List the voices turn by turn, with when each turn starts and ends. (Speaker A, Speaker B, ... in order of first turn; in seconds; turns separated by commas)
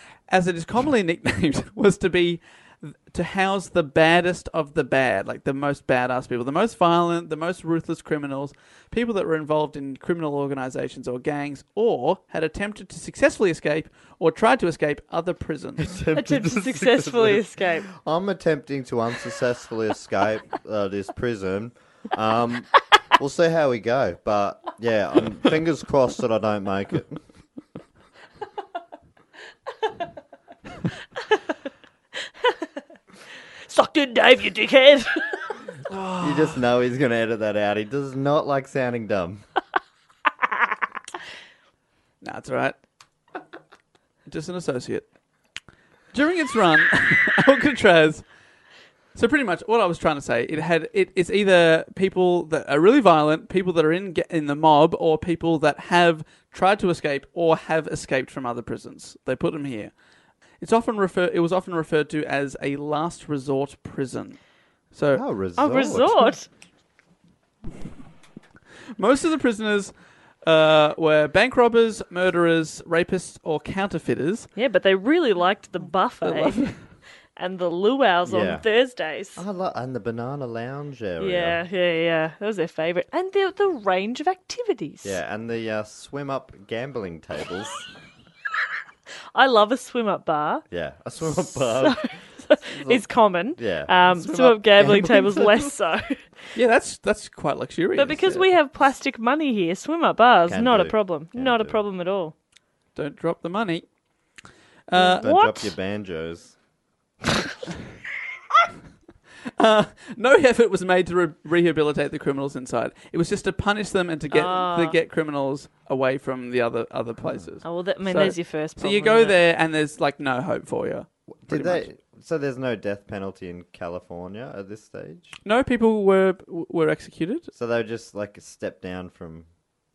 Speaker A: 0.3-15.9, Speaker B: 15.8-27.2, Speaker C: 16.1-17.9, Speaker C: 33.7-35.6, Speaker A: 35.9-36.6, Speaker B: 36.2-39.4, Speaker A: 42.2-42.8, Speaker A: 44.3-45.1, Speaker A: 46.1-48.2, Speaker A: 49.1-59.9, Speaker A: 60.6-64.4, Speaker A: 64.9-65.2, Speaker B: 65.1-66.3, Speaker C: 65.6-66.5, Speaker A: 69.0-69.9, Speaker A: 70.4-74.5, Speaker C: 74.6-76.7, Speaker A: 76.2-76.8, Speaker C: 77.4-79.4, Speaker B: 78.3-78.7, Speaker B: 79.4-81.6, Speaker C: 81.2-85.2, Speaker B: 85.0-87.9, Speaker C: 89.3-90.7, Speaker B: 90.7-93.0, Speaker C: 91.2-96.3, Speaker B: 93.6-95.7, Speaker A: 94.2-94.9, Speaker A: 96.5-98.4, Speaker C: 98.0-102.3, Speaker B: 100.5-101.8, Speaker A: 103.0-103.9, Speaker A: 104.9-105.3, Speaker C: 104.9-105.7, Speaker B: 105.2-106.5, Speaker A: 109.6-121.9, Speaker C: 114.3-115.0, Speaker B: 117.2-117.5, Speaker C: 117.6-119.4, Speaker B: 121.3-125.4, Speaker A: 125.4-127.5, Speaker B: 127.5-129.5